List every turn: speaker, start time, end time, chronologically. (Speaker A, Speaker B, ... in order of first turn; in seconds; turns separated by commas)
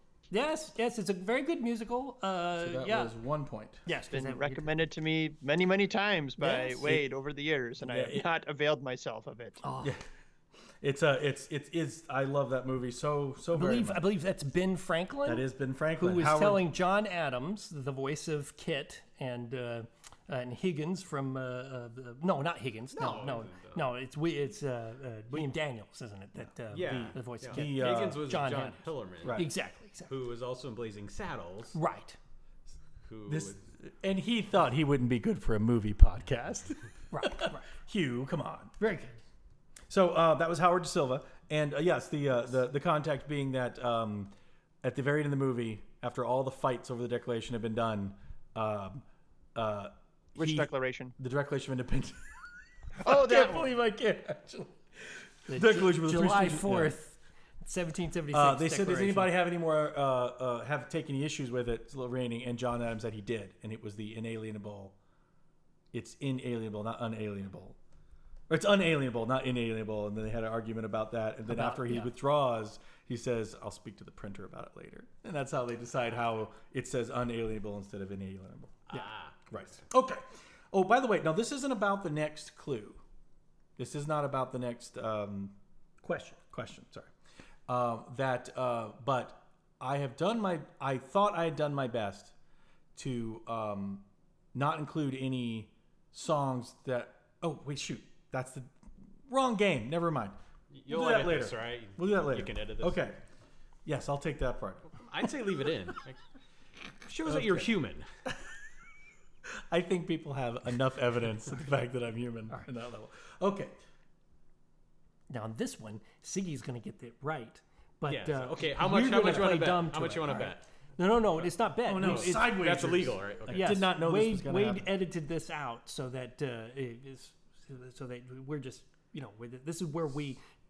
Speaker A: 0.3-3.1, Speaker B: 2.6-3.9, Speaker A: 3.9-4.8, Speaker C: 4.1-9.6, Speaker A: 6.4-6.9, Speaker B: 7.9-8.2, Speaker A: 9.6-9.9, Speaker B: 10.8-14.0, Speaker A: 13.5-15.5, Speaker B: 15.2-16.6, Speaker A: 16.0-30.1, Speaker D: 22.9-23.9, Speaker D: 26.7-29.5, Speaker B: 27.5-28.2, Speaker B: 29.2-29.5, Speaker D: 30.1-31.8, Speaker A: 31.7-32.2, Speaker D: 33.0-33.6, Speaker B: 33.3-36.8, Speaker A: 37.1-37.6, Speaker B: 37.9-38.7, Speaker A: 38.8-39.1, Speaker B: 39.9-44.3, Speaker B: 44.8-49.0, Speaker B: 49.5-52.2, Speaker C: 50.4-51.1, Speaker C: 53.0-53.7, Speaker B: 53.0-54.7, Speaker A: 55.5-59.4, Speaker B: 55.5-56.9, Speaker B: 58.3-65.0, Speaker B: 65.9-67.8, Speaker B: 68.5-78.8, Speaker A: 71.5-72.1, Speaker D: 78.9-79.8, Speaker B: 79.5-83.0, Speaker B: 83.8-87.1, Speaker B: 87.7-92.3, Speaker B: 93.0-98.7, Speaker B: 99.3-100.3, Speaker D: 100.7-103.1, Speaker B: 100.9-103.2, Speaker B: 103.9-104.9, Speaker D: 104.9-106.2, Speaker D: 107.1-108.1, Speaker B: 107.2-107.7, Speaker B: 109.7-113.7, Speaker A: 115.3-122.6, Speaker D: 118.1-120.6, Speaker B: 118.9-119.6, Speaker D: 121.3-123.8, Speaker B: 121.9-124.9, Speaker A: 123.5-130.4